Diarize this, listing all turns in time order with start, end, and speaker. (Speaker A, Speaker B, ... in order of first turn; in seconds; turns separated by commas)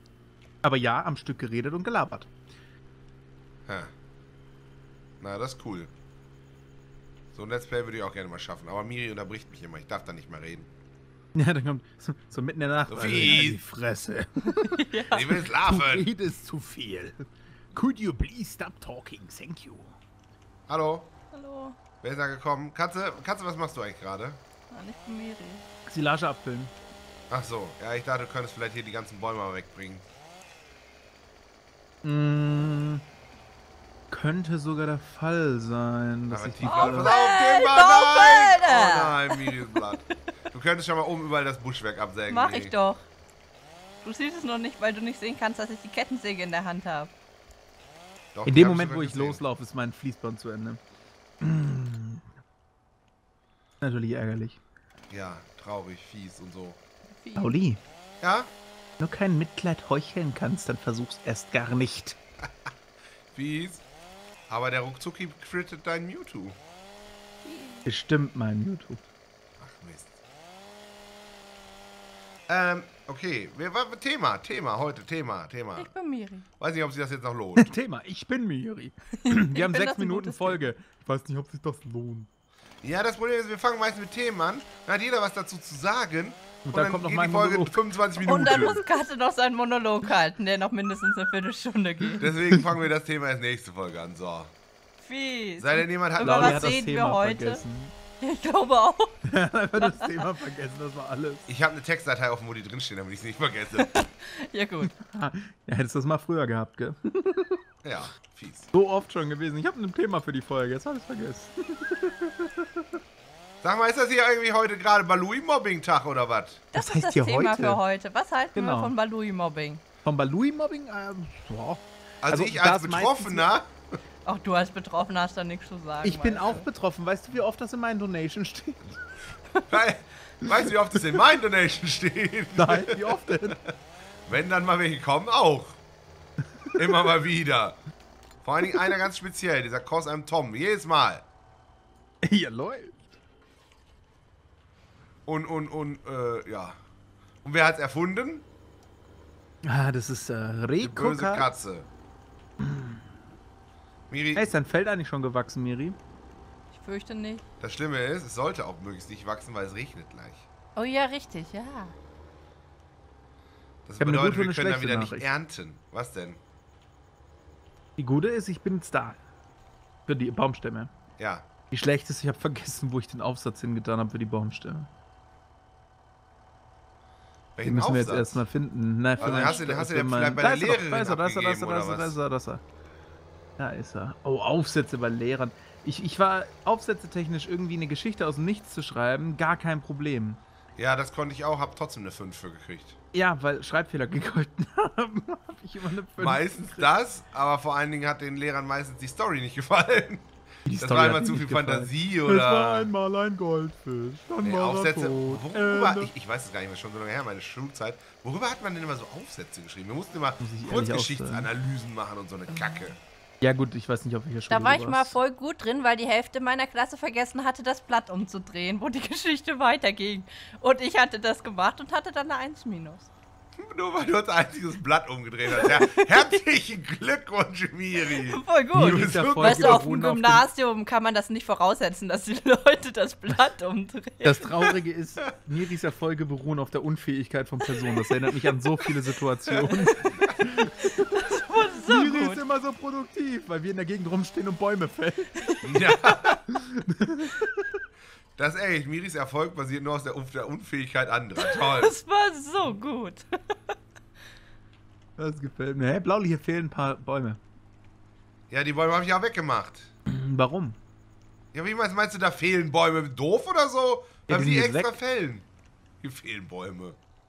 Speaker A: 0.6-2.3, Speaker B: 3.7-3.9, Speaker B: 5.2-5.9, Speaker B: 7.3-10.7, Speaker A: 11.3-14.8, Speaker B: 12.9-13.6, Speaker C: 14.5-15.3, Speaker B: 15.1-16.1, Speaker A: 15.6-19.9, Speaker B: 20.7-21.1, Speaker C: 21.3-21.8, Speaker B: 22.0-24.4, Speaker C: 24.7-25.6, Speaker A: 25.9-26.7, Speaker B: 27.3-30.1, Speaker A: 32.0-33.0, Speaker A: 34.1-37.1, Speaker B: 36.3-42.7, Speaker C: 36.6-39.6, Speaker C: 42.3-43.0, Speaker C: 44.0-47.1, Speaker B: 48.3-49.4, Speaker A: 48.5-50.8, Speaker A: 51.4-52.2, Speaker A: 53.8-54.6, Speaker B: 55.1-56.8, Speaker C: 57.1-57.5, Speaker A: 57.4-57.8, Speaker B: 58.2-58.5, Speaker A: 59.0-62.2, Speaker B: 63.3-63.8, Speaker B: 64.5-66.5, Speaker C: 67.4-67.9, Speaker A: 67.9-69.0, Speaker B: 69.6-70.2, Speaker B: 72.5-75.9, Speaker C: 75.8-76.5, Speaker B: 76.6-77.7, Speaker A: 77.6-82.3, Speaker C: 79.2-80.7, Speaker B: 82.8-88.8, Speaker A: 86.7-87.8, Speaker C: 88.2-92.3, Speaker B: 92.2-94.5, Speaker C: 95.0-97.6, Speaker B: 95.6-96.8, Speaker A: 96.2-98.0, Speaker C: 98.2-99.2, Speaker A: 99.2-101.5, Speaker C: 99.8-100.2, Speaker B: 101.5-103.9, Speaker C: 103.8-104.9, Speaker A: 104.9-107.6, Speaker B: 107.8-108.7, Speaker A: 108.7-112.9, Speaker B: 113.6-116.6, Speaker C: 116.7-119.8, Speaker A: 116.8-117.8, Speaker A: 118.5-118.9, Speaker A: 120.0-123.5, Speaker B: 122.2-123.7, Speaker C: 124.2-126.7, Speaker A: 126.0-129.0, Speaker B: 129.7-133.7, Speaker A: 132.6-133.6, Speaker B: 134.3-135.8, Speaker B: 136.8-137.8, Speaker B: 138.4-141.2, Speaker A: 142.2-143.0, Speaker B: 145.3-146.8, Speaker B: 147.4-148.4, Speaker A: 149.7-151.5, Speaker B: 150.8-151.9, Speaker A: 152.6-153.0, Speaker B: 154.1-154.5, Speaker A: 154.3-156.0, Speaker C: 156.7-157.4, Speaker B: 157.6-160.5, Speaker C: 160.8-161.9, Speaker B: 163.8-166.4, Speaker A: 164.0-165.3, Speaker A: 168.0-169.2, Speaker A: 170.1-170.9, Speaker B: 171.2-171.5, Speaker A: 171.7-174.9, Speaker B: 177.6-178.4, Speaker A: 177.6-182.6, Speaker B: 179.2-182.2, Speaker A: 183.6-190.4, Speaker B: 190.8-193.0, Speaker A: 193.1-196.9, Speaker B: 196.2-202.9, Speaker A: 200.7-206.1, Speaker B: 204.4-213.0, Speaker A: 210.4-211.5, Speaker A: 213.4-215.2, Speaker C: 214.5-223.1, Speaker B: 223.6-229.8, Speaker C: 225.5-226.3, Speaker C: 228.0-234.7, Speaker A: 228.8-230.5, Speaker A: 234.2-241.1, Speaker C: 240.9-242.4, Speaker A: 241.8-245.3, Speaker B: 245.6-246.4, Speaker A: 246.5-247.5, Speaker B: 248.4-251.9, Speaker C: 251.4-253.3, Speaker A: 255.2-257.4, Speaker B: 258.5-259.9, Speaker A: 260.1-260.8, Speaker B: 261.5-265.5, Speaker A: 264.3-265.0, Speaker B: 266.0-267.0